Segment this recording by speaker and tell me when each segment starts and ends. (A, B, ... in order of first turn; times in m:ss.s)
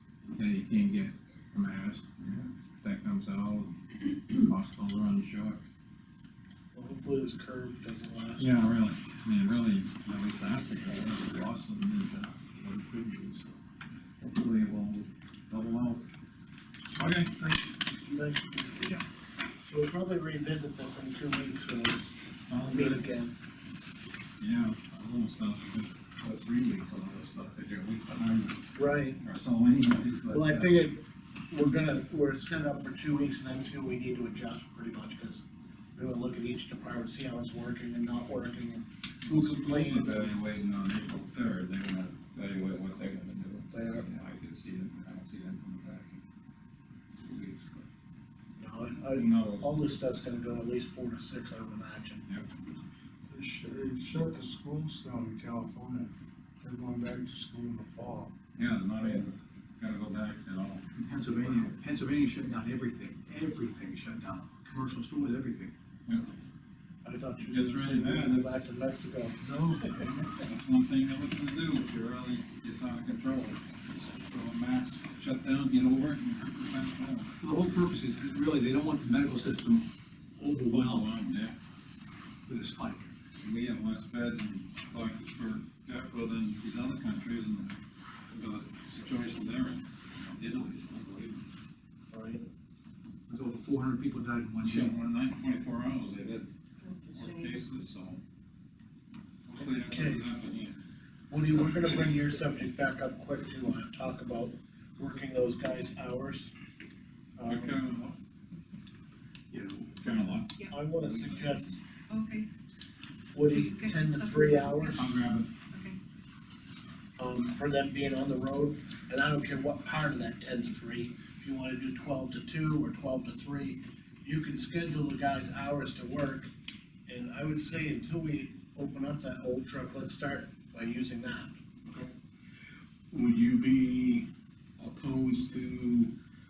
0:00.4-0:02.1 A
0:02.8-0:03.8 A
0:04.3-0:05.6 A
0:06.7-0:08.6 B
0:08.4-0:13.5 A
0:14.2-0:16.0 A
0:17.4-0:19.0 B
0:19.6-0:23.3 B
0:22.5-0:23.0 A
0:24.4-0:28.6 A
0:28.8-0:29.2 B
0:29.2-0:30.7 A
0:30.3-0:35.4 B
0:36.0-0:40.4 B
0:39.3-0:46.2 A
0:47.2-0:47.9 A
0:48.6-0:52.2 B
0:49.1-0:49.7 A
0:53.3-0:58.3 C
0:58.6-1:00.8 A
1:01.0-1:05.7 D
1:07.0-1:10.1 B
1:07.5-1:08.6 A
1:09.4-1:10.1 C
1:10.4-1:17.4 A
1:17.4-1:19.9 D
1:20.4-1:21.1 D
1:20.5-1:21.6 A
1:22.5-1:23.1 D
1:23.4-1:27.8 A
1:28.3-1:31.4 A
1:32.1-1:32.4 B
1:33.3-1:35.0 D
1:34.6-1:36.5 A
1:36.8-1:37.6 E
1:37.1-1:38.2 A
1:39.5-1:40.8 A
1:39.6-1:40.3 B
1:41.3-1:46.5 B
1:47.4-1:47.8 B
1:47.5-1:48.2 A
1:49.5-1:50.1 D
1:49.8-1:50.5 A
1:50.7-1:51.8 B
1:51.0-1:51.7 A
1:52.1-1:52.5 E
1:53.3-1:55.0 B
1:53.5-1:55.1 E
1:55.0-1:55.5 A
1:55.7-1:56.0 E
1:57.2-2:06.5 B
2:07.1-2:11.5 B
2:13.1-2:14.3 F
2:14.8-2:16.1 F